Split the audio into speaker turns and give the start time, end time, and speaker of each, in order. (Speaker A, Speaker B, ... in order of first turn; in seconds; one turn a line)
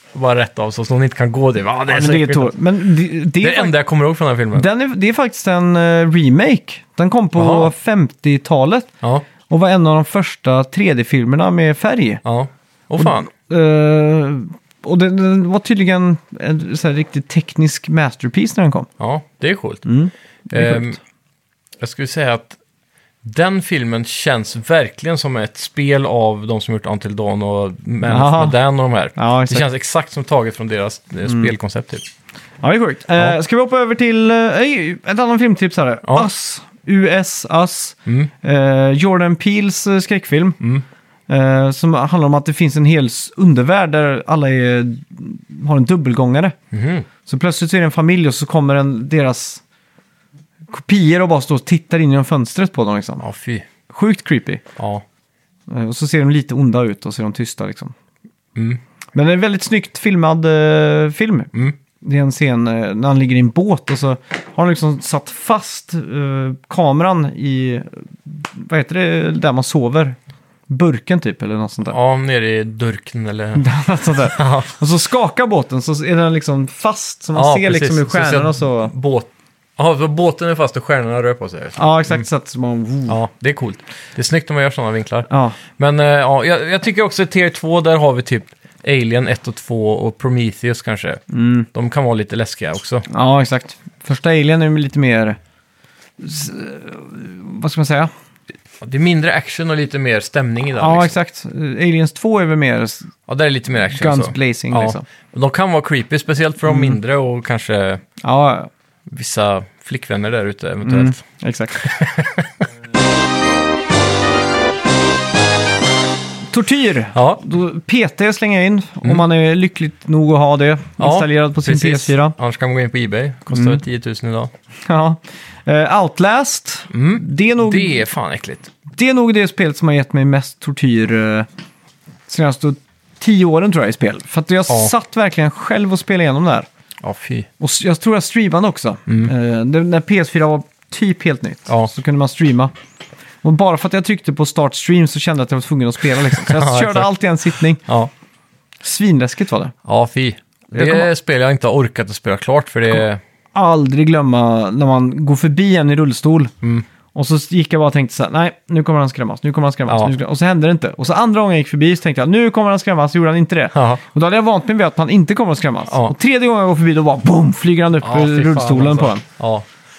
Speaker A: 0.1-2.7
Speaker B: 1.9-3.7
Speaker A: 3.4-4.7
Speaker B: 4.5-8.9
Speaker A: 7.3-7.7
Speaker B: 9.5-12.2
Speaker A: 12.2-13.3
Speaker B: 13.0-18.9
Speaker A: 19.0-19.8
Speaker B: 19.8-20.9
Speaker A: 20.5-21.0
Speaker A: 21.8-22.6
Speaker A: 23.2-32.0
Speaker B: 28.0-28.6
Speaker B: 29.1-29.7
Speaker B: 31.2-31.5
Speaker B: 32.6-40.6
Speaker B: 41.3-46.5
Speaker A: 46.7-47.1
Speaker B: 47.2-49.6
Speaker B: 50.7-53.2
Speaker A: 53.2-53.7
Speaker B: 53.9-54.6
Speaker A: 54.8-55.0
Speaker B: 55.7-57.9
Speaker A: 58.5-58.8
Speaker B: 59.1-70.2
Speaker B: 70.7-72.0
Speaker A: 71.9-73.7
Speaker B: 73.5-78.9
Speaker A: 74.2-74.7
Speaker A: 77.3-82.2
Speaker B: 81.8-83.2
Speaker A: 83.1-93.0
Speaker B: 85.3-85.6
Speaker B: 91.3-91.7
Speaker B: 93.1-95.4
Speaker B: 96.2-98.1
Speaker A: 98.8-101.2
Speaker B: 100.7-103.1
Speaker A: 103.3-108.0
Speaker B: 103.9-105.0
Speaker B: 106.7-107.0
Speaker B: 108.2-108.7
Speaker A: 109.1-111.2
Speaker B: 110.8-111.9
Speaker A: 111.8-112.7
Speaker B: 116.5-122.3
Speaker A: 117.1-117.4
Speaker A: 121.0-124.5
Speaker B: 123.5-123.8
Speaker B: 124.9-128.0
Speaker A: 126.9-128.7
Speaker B: 128.9-131.5
Speaker B: 132.3-136.7
Speaker A: 137.0-137.5
Speaker B: 137.6-142.7
Speaker B: 143.4-147.8
Speaker A: 146.3-147.1
Speaker A: 147.8-148.1
Speaker B: 148.8-149.7
Speaker A: 149.8-153.2
Speaker B: 150.7-151.1
Speaker B: 153.5-156.5
Speaker B: 157.1-169.2
Speaker A: 159.9-160.1
Speaker A: 163.7-164.0
Speaker A: 168.0-169.7